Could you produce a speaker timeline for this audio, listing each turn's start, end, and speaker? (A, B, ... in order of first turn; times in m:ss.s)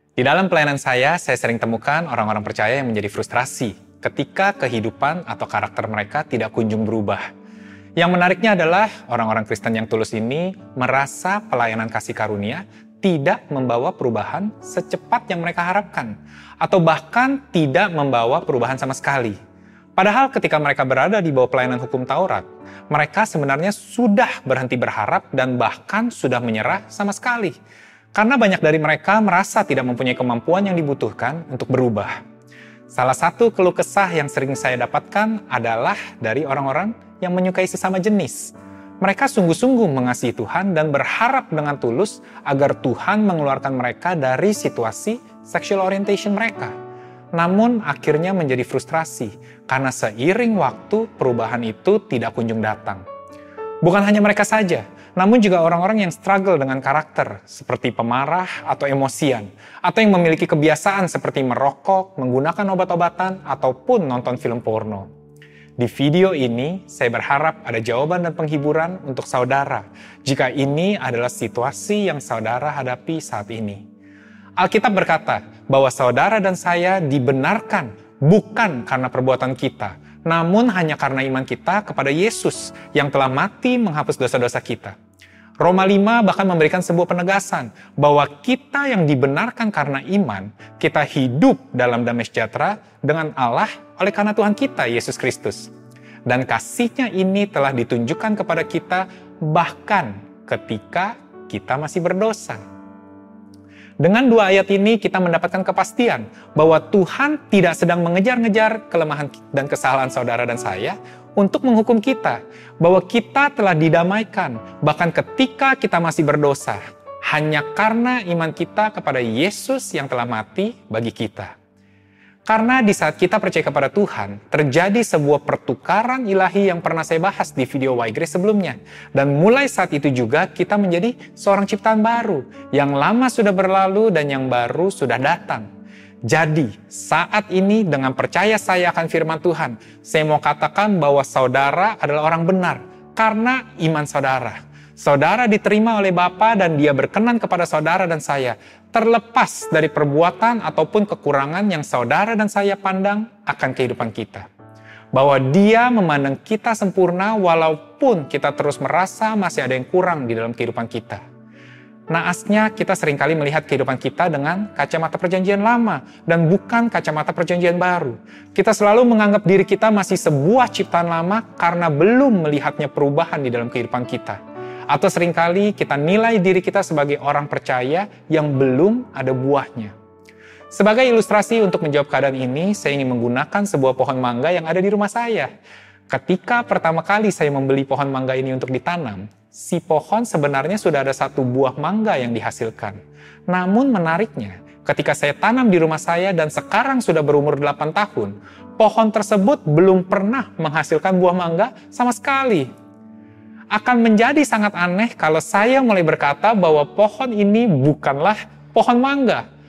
0:00.2-0:07.2 A
0:08.0-0:19.4 A
0:20.0-0:27.6 A
0:28.1-0:32.2 A
0:32.9-0:46.8 A
0:47.3-0:53.0 A
0:53.8-1:05.1 A
1:05.8-1:13.8 A
1:14.6-1:25.0 A
1:25.6-1:35.7 A
1:36.3-1:42.6 A
1:44.0-2:01.6 A
2:02.5-2:15.7 A
2:16.3-2:34.5 A
2:35.1-2:41.2 A
2:42.1-2:59.9 A
3:00.7-3:05.5 A
3:06.1-3:22.7 A
3:23.7-3:29.4 A